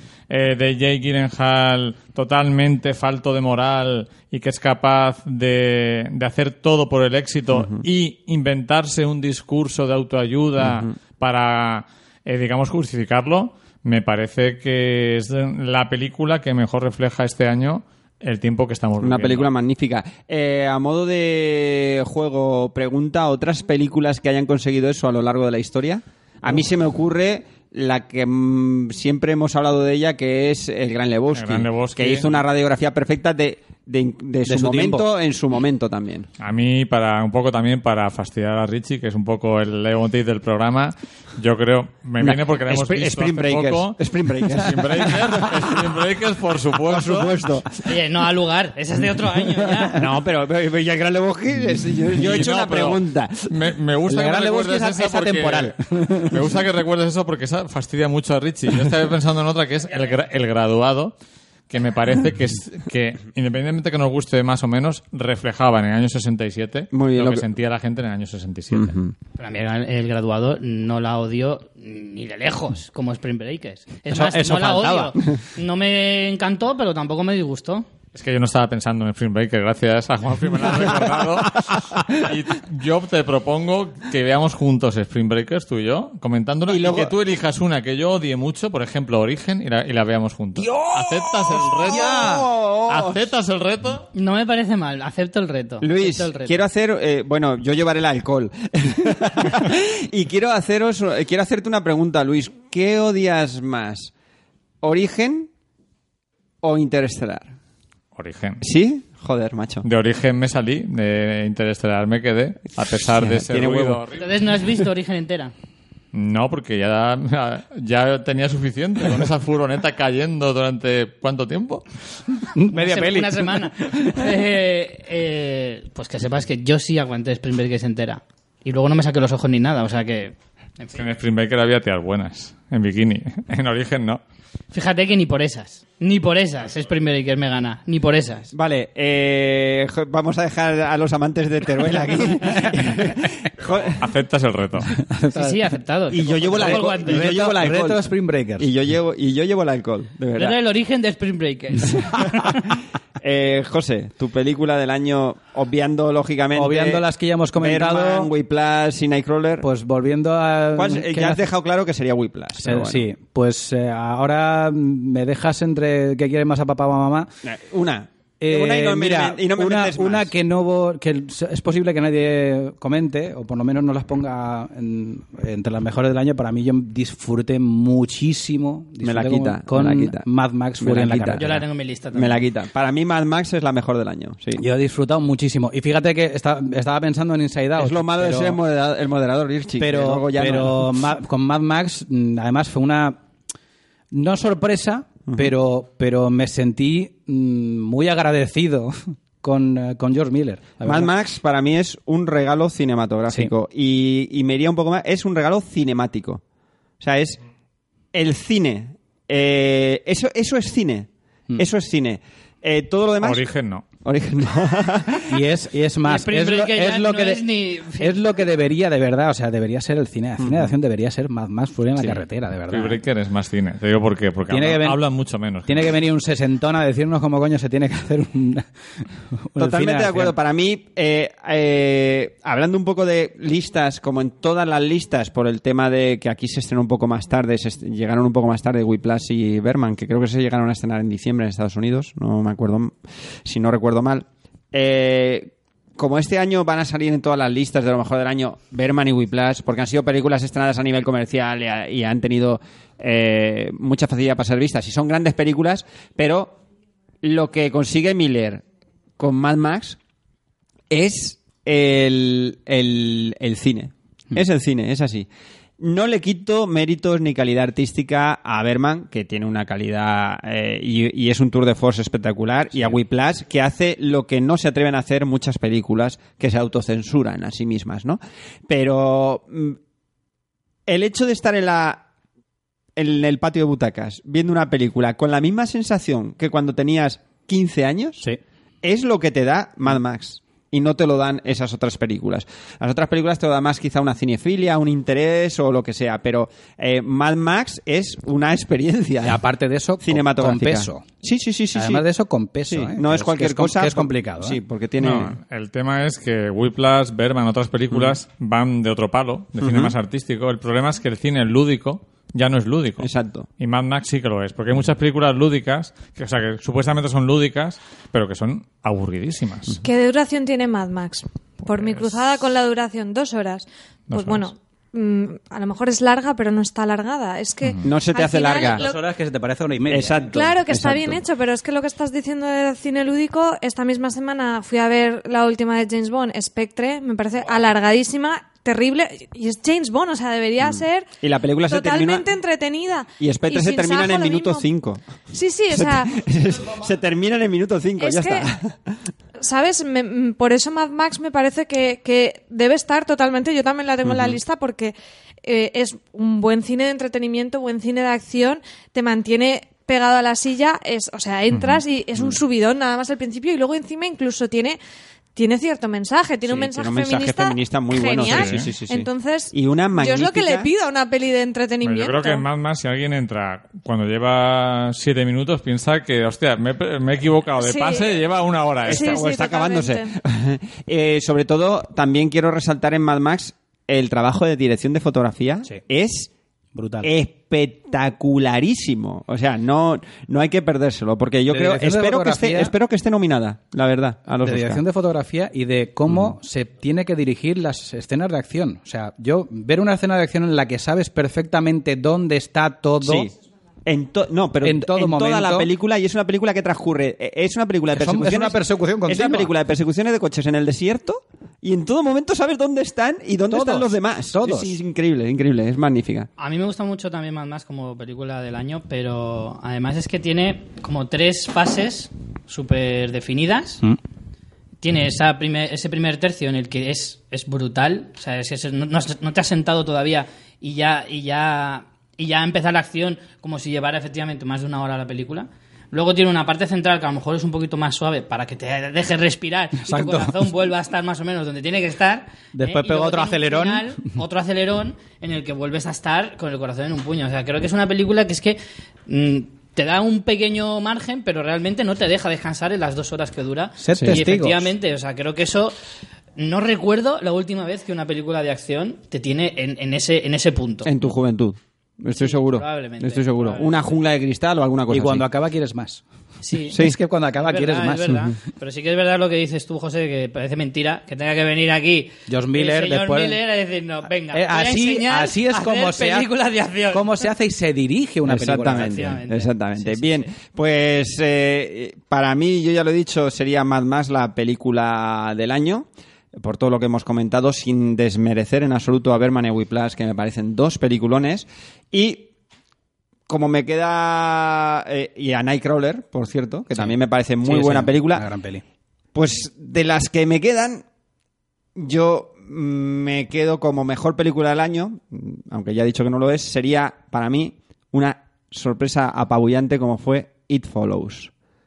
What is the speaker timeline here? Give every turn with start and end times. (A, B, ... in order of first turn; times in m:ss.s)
0:00.3-0:19.5 A
0:07.5-0:07.8 B
0:10.6-0:10.9 B
0:19.0-0:36.3 B
0:31.3-0:32.4 A
0:34.4-0:35.1 C
0:36.4-0:47.6 A
0:42.2-0:45.9 B
0:46.8-0:47.8 B
0:47.8-0:50.0 D
0:49.9-0:53.5 B
0:52.1-1:01.1 A
0:54.1-0:56.4 C
1:01.7-1:09.0 A
1:06.9-1:07.4 B
1:08.7-1:09.1 B
1:09.4-1:17.9 D
1:14.1-1:15.2 C
1:18.1-1:34.1 A
1:26.7-1:27.1 B
1:30.6-1:33.2 B
1:31.8-1:32.3 C
1:34.1-1:36.7 D
1:35.8-1:44.1 B
1:44.8-1:45.5 B
1:46.6-1:47.5 B
1:48.2-1:48.6 A
1:48.6-1:49.8 B
1:49.8-1:54.3 A
1:53.2-1:54.0 B
1:54.2-1:55.5 D
1:56.1-2:01.8 A
2:02.5-2:04.4 C
2:02.7-2:11.0 D
2:10.9-2:14.2 A
2:14.7-2:18.5 D
2:18.5-2:24.0 B
2:23.9-2:24.9 A
2:25.0-2:25.6 C
2:25.3-2:27.3 D
2:26.1-2:28.0 B
2:26.5-2:28.7 C
2:28.6-2:30.6 B
2:30.3-2:32.6 D
2:33.2-2:37.0 B
2:36.5-2:38.3 C
2:37.6-2:39.6 B
2:39.6-2:41.4 C
2:40.8-2:43.0 B
2:42.6-2:47.3 C
2:47.4-2:50.3 B
2:48.4-3:01.6 C
2:59.0-3:00.2 B
3:00.8-3:01.5 B
3:01.4-3:02.4 D
3:02.1-3:04.6 B
3:04.6-3:08.6 C
3:07.8-3:10.9 B
3:09.8-3:13.2 C
3:14.1-3:21.1 C
3:15.3-3:15.5 B
3:20.8-3:26.4 B
3:27.0-3:27.4 B
3:28.1-3:33.4 B
3:33.2-3:33.8 A
3:34.0-3:35.4 B
3:35.3-3:37.4 C
3:36.0-3:38.2 D
3:38.0-3:43.0 C
3:40.4-3:40.7 B
3:42.7-3:45.9 A
3:44.5-3:45.0 C
3:45.6-3:50.4 C
3:49.6-4:16.6 B
4:17.2-4:18.6 B
4:19.2-4:20.0 B
4:20.9-4:25.3 B
4:25.8-4:39.8 B
4:40.9-4:42.0 B
4:43.0-4:48.2 B
4:48.8-4:59.4 B
4:59.2-5:01.1 C
5:00.0-5:02.0 B
5:01.7-5:04.6 C
5:02.7-5:05.4 B
5:05.0-5:19.8 A
5:09.6-5:09.9 B
5:13.0-5:13.5 B
5:19.8-5:28.8 E
5:24.1-5:24.4 A
5:27.8-5:28.8 B
5:28.7-5:31.2 C
5:29.9-5:30.9 B
5:30.3-5:41.1 E
5:40.6-5:42.3 B
5:41.6-5:44.7 E
5:43.2-5:45.0 B
5:45.3-5:46.2 E
5:45.7-5:49.0 B
5:48.0-5:48.5 E
5:49.4-6:04.8 E
5:54.1-5:54.3 B
6:01.5-6:01.8 A
6:05.3-6:12.4 E
6:06.4-6:10.7 B
6:08.2-6:08.7 A
6:11.8-6:19.2 A
6:17.6-6:18.2 E
6:18.8-6:20.1 E
6:18.8-6:26.3 B
6:26.7-6:27.1 C
6:27.0-6:34.8 B
6:31.5-6:32.7 C
6:34.4-6:43.3 C
6:43.0-6:43.3 B
6:43.8-6:56.3 B
6:44.6-6:45.7 C
6:47.9-6:49.5 C
6:53.5-6:54.8 C
6:56.4-7:03.8 D
7:04.8-7:35.7 D
7:19.8-7:20.5 C
7:22.5-7:24.1 C
7:33.8-7:34.7 C
7:33.9-7:34.2 B
7:36.4-7:40.9 D
7:40.8-7:45.2 B
7:42.1-7:43.9 D
7:44.9-7:46.0 C
7:46.4-7:46.8 D
7:46.7-7:48.3 C
7:46.7-7:47.0 B
7:47.4-7:57.3 D
7:52.3-7:53.4 C
7:54.3-7:56.3 C
7:56.9-7:59.2 C
7:58.2-8:12.3 B
7:58.7-8:00.3 D
8:13.3-8:18.3 B
8:16.7-8:18.6 C
8:19.1-8:20.8 B
8:21.7-8:31.3 B